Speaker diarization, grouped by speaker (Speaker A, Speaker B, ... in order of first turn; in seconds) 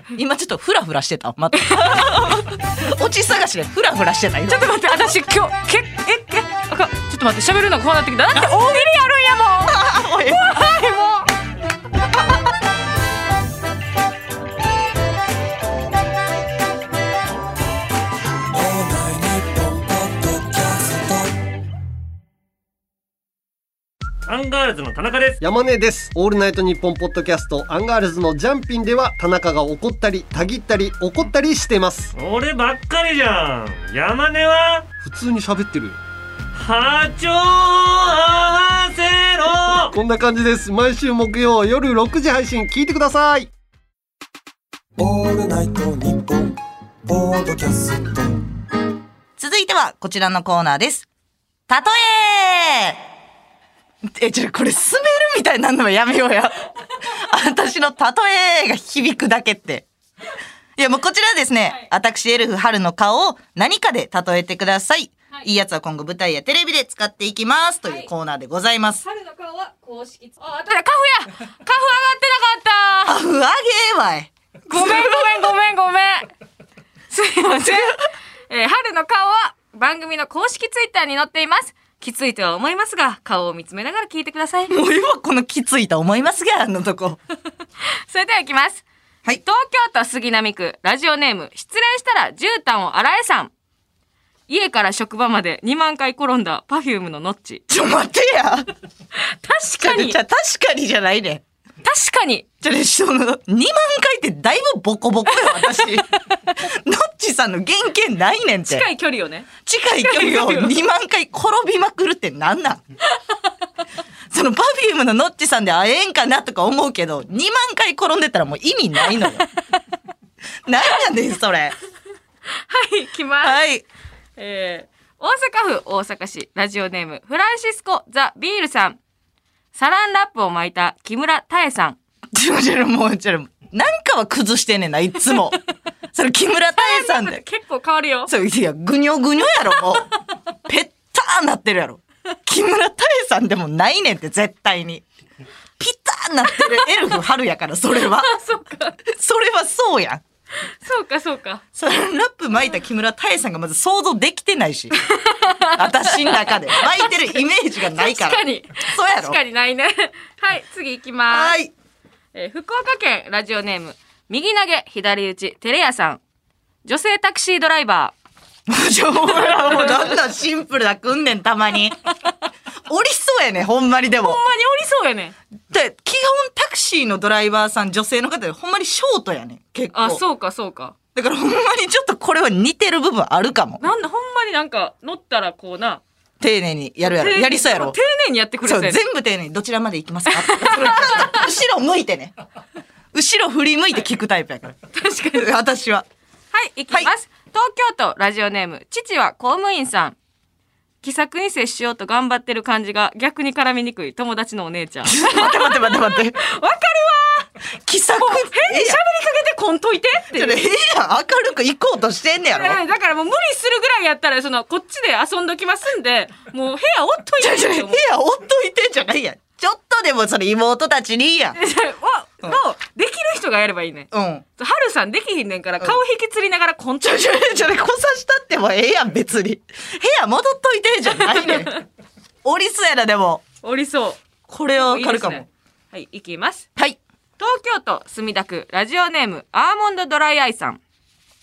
Speaker A: 0.1-4.8, 8.3-8.8, 9.7-10.8, 49.4-51.1, 51.7-53.0, 54.0-59.9, 60.8-69.0, 73.0-75.4, 77.6-78.0, 84.7-87.2, 97.7-98.7, 99.8-101.4, 102.6-108.9, 109.6-112.8, 114.3-119.4, 120.7-121.7, 123.4-123.8, 132.3-135.6, 136.1-137.4, 138.3-140.1, 140.6-145.0, 145.8-148.3, 149.1-150.2, 151.7-154.9, 155.8-159.4, 161.3-161.7, 168.7-172.1, 172.9-174.4, 175.7-180.2, 181.1-183.8, 186.4-188.0, 188.6-192.3, 193.1-194.8, 195.3-196.1, 205.0-206.4, 207.8-209.0, 210.3-212.8, 217.4-221.6, 224.1-224.4, 227.0-231.7, 232.4-233.4, 234.5-235.4
Speaker B: 1.6-2.4, 4.5-11.3, 69.0-73.1, 74.7-76.3, 77.1-84.7, 88.1-88.8, 89.4-93.5, 94.5-97.6, 99.2-100.2, 101.8-102.5, 105.3-106.0, 108.7-109.5, 110.0-110.7, 122.5-123.6, 124.4-129.0, 129.7-132.0, 136.8-138.3, 146.5-146.9, 148.1-149.0, 150.6-151.6, 154.9-161.6, 162.3-166.2, 166.8-168.1, 169.2-170.1, 174.2-175.3, 179.9-180.9, 183.8-186.0, 187.0-189.0, 190.3-191.4, 194.9-195.5, 196.5-200.2, 201.0-207.5, 208.2-210.6, 212.5-218.1, 221.5-227.5, 231.2-231.8, 233.6-236.7, 237.4-240.8
Speaker C: 18.5-21.4, 45.0-48.4
Speaker D: 24.2-25.4, 32.1-34.9, 36.5-39.9
Speaker E: 25.4-32.1, 35.0-36.0, 39.9-43.5